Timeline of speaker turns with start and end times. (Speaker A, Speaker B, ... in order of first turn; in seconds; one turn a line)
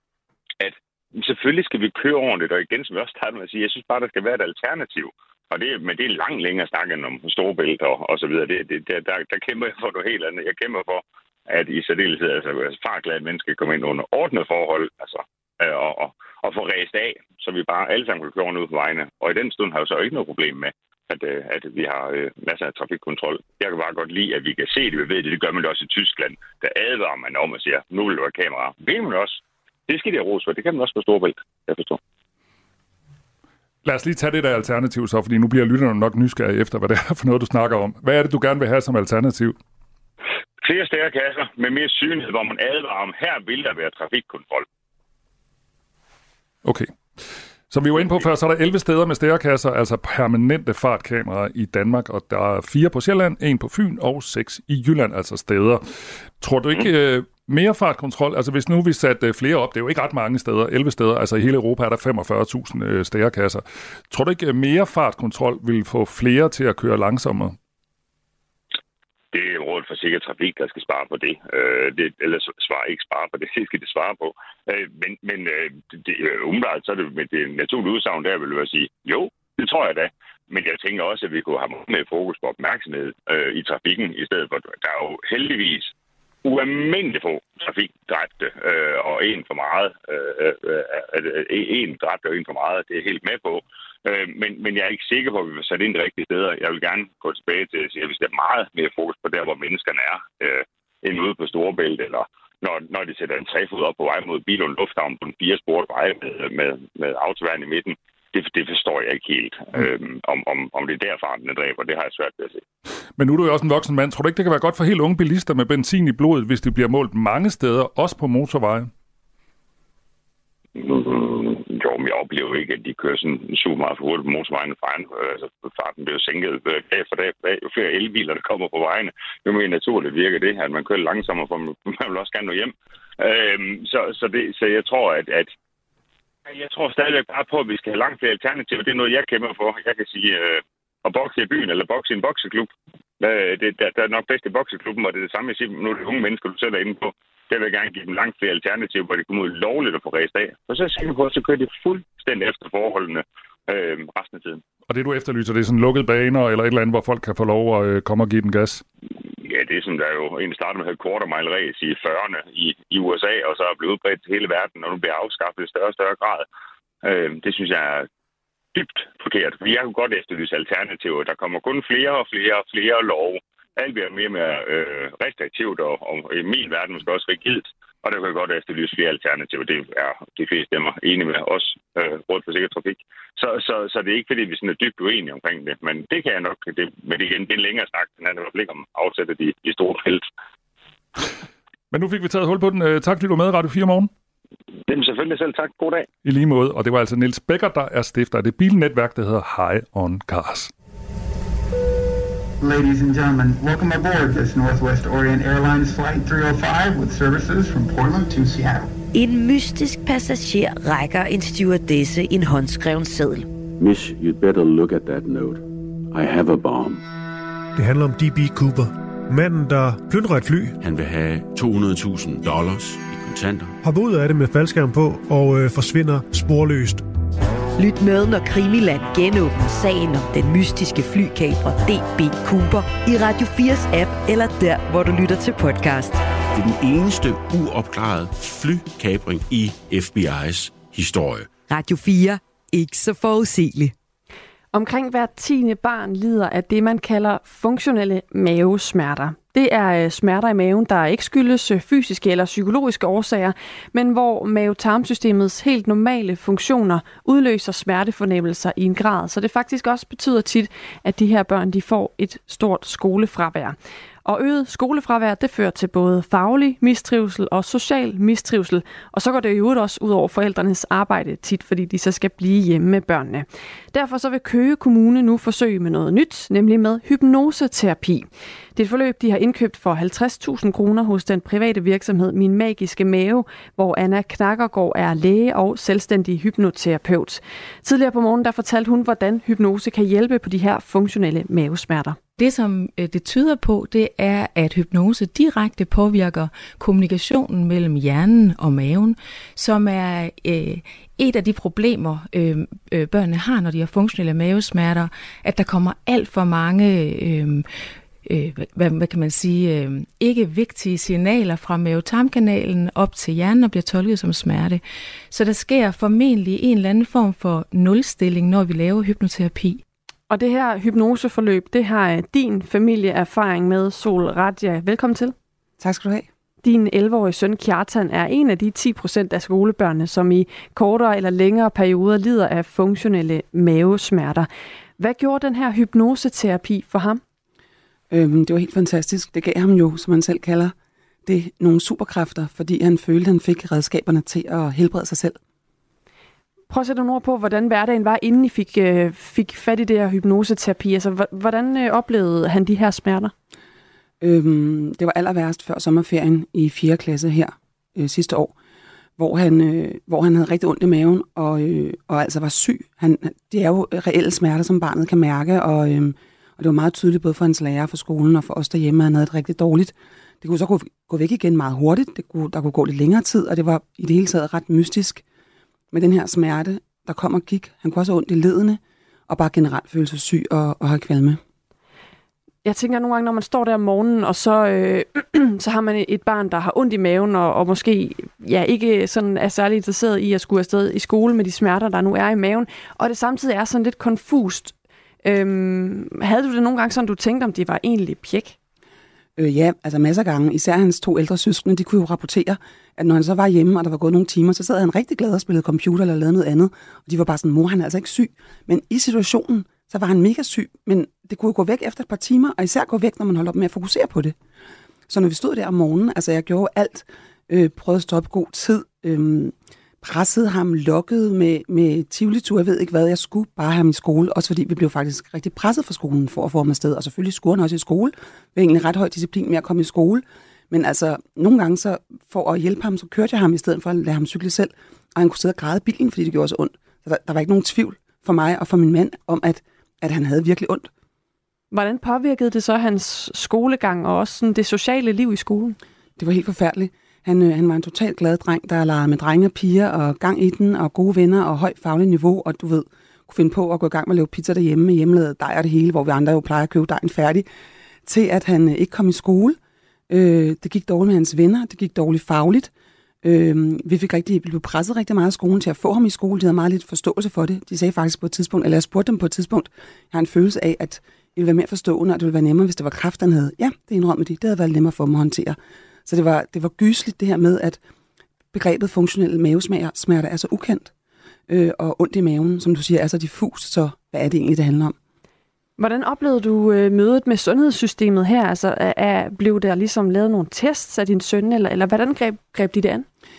Speaker A: 0.6-32.0
Speaker B: 33.8-39.6
Speaker A: 40.6-44.6
Speaker B: 46.6-55.8
Speaker B: 56.4-67.6
Speaker A: 69.3-85.9
Speaker A: 86.4-112.6
Speaker B: 113.2-118.9
Speaker A: 120.8-135.5
Speaker A: 136.5-154.6
Speaker B: 154.9-158.8
Speaker A: 159.4-166.4
Speaker A: 167.0-168.1
Speaker A: 168.7-190.3
Speaker B: 191.9-194.1
Speaker A: 194.9-196.1
Speaker B: 196.2-200.7
Speaker C: 202.6-208.9
Speaker D: 209.1-213.5
Speaker E: 213.8-217.0
Speaker F: 217.8-220.8
Speaker E: 220.8-223.8
Speaker F: 223.8-227.1
Speaker D: 227.8-236.2
Speaker E: 236.6-241.5
Speaker D: 241.7-243.9
Speaker G: 244.7-292.2
Speaker H: 292.4-307.7
Speaker H: 308.2-319.8
Speaker G: 320.3-325.3
Speaker I: 325.8-326.3
Speaker G: 326.6-334.5
Speaker G: 335.0-337.2
Speaker I: 338.1-340.7
Speaker I: 341.3-345.4
Speaker G: 346.7-353.3
Speaker I: 354.2-358.5
Speaker I: 359.2-375.2
Speaker I: 375.9-381.4
Speaker G: 382.6-394.7
Speaker G: 395.2-398.6
Speaker I: 399.4-414.4
Speaker I: 415.1-440.9
Speaker G: 441.7-445.8
Speaker I: 446.2-457.5
Speaker I: 458.1-459.6
Speaker I: 460.1-462.7
Speaker I: 463.2-477.8
Speaker I: 478.5-480.9
Speaker I: 481.5-484.9
Speaker G: 485.8-493.1